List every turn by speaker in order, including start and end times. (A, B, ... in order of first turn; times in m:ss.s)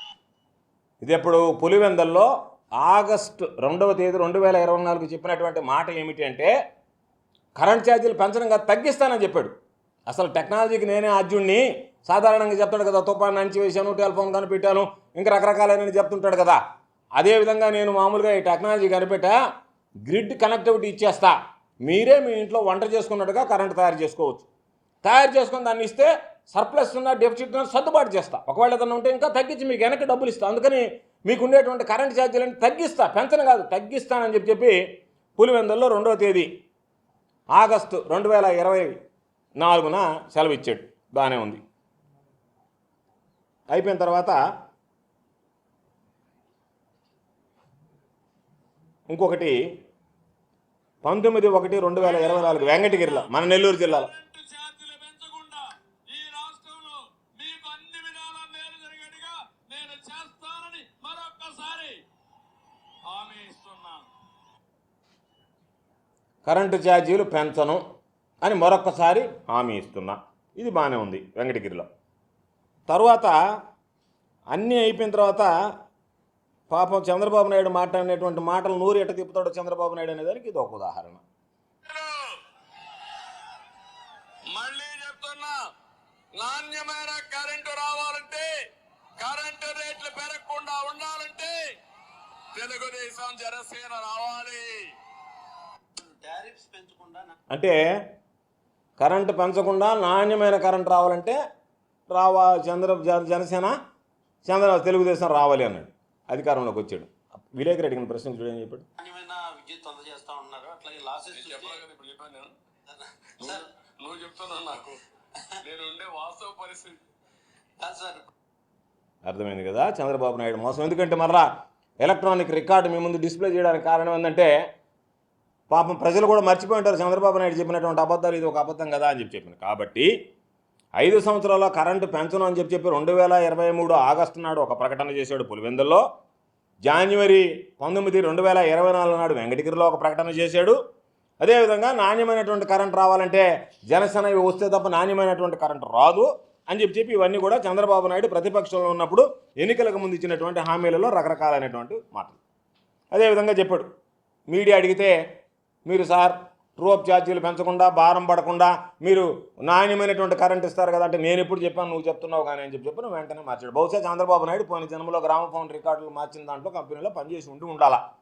0:01.0-0:06.5 A
0:07.6-0:09.5 A
0:10.1-0:16.6 A
0:17.2-0:19.4 A
0:20.1-0:24.5 A
0:25.0-0:34.8 A
0:35.4-0:36.5 A
0:37.5-0:39.0 A
0:39.6-0:41.6 A
0:43.7-0:44.4 A
0:49.1-0:49.6 A
0:51.0-0:54.1 A
0:52.0-1:02.0 B
1:03.1-1:04.0 B
1:06.4-1:07.8 A
1:08.4-1:11.9 A
1:12.9-1:13.4 A
1:14.5-1:15.5 A
1:16.7-1:21.2 A
1:21.9-1:22.4 B
1:24.5-1:25.6 B
1:26.4-1:28.5 B
1:29.2-1:31.6 B
1:32.6-1:34.9 B
1:36.0-1:37.4 C
1:37.5-1:37.8 A
1:39.0-1:41.4 A
1:42.1-1:43.7 A
1:44.4-1:48.9 A
1:49.0-1:51.8 C
1:51.3-1:52.5 B
1:52.9-1:53.7 C
1:53.4-1:55.0 B
1:55.6-1:57.0 B
1:57.8-1:58.3 C
1:59.2-2:01.5 A
2:02.0-2:04.5 A
2:05.7-2:10.1 A
2:11.0-2:16.0 A
2:16.8-2:20.8 A
2:21.4-2:32.4 A
2:33.1-2:33.9 A
2:34.5-2:35.1 A
2:35.9-2:48.0 A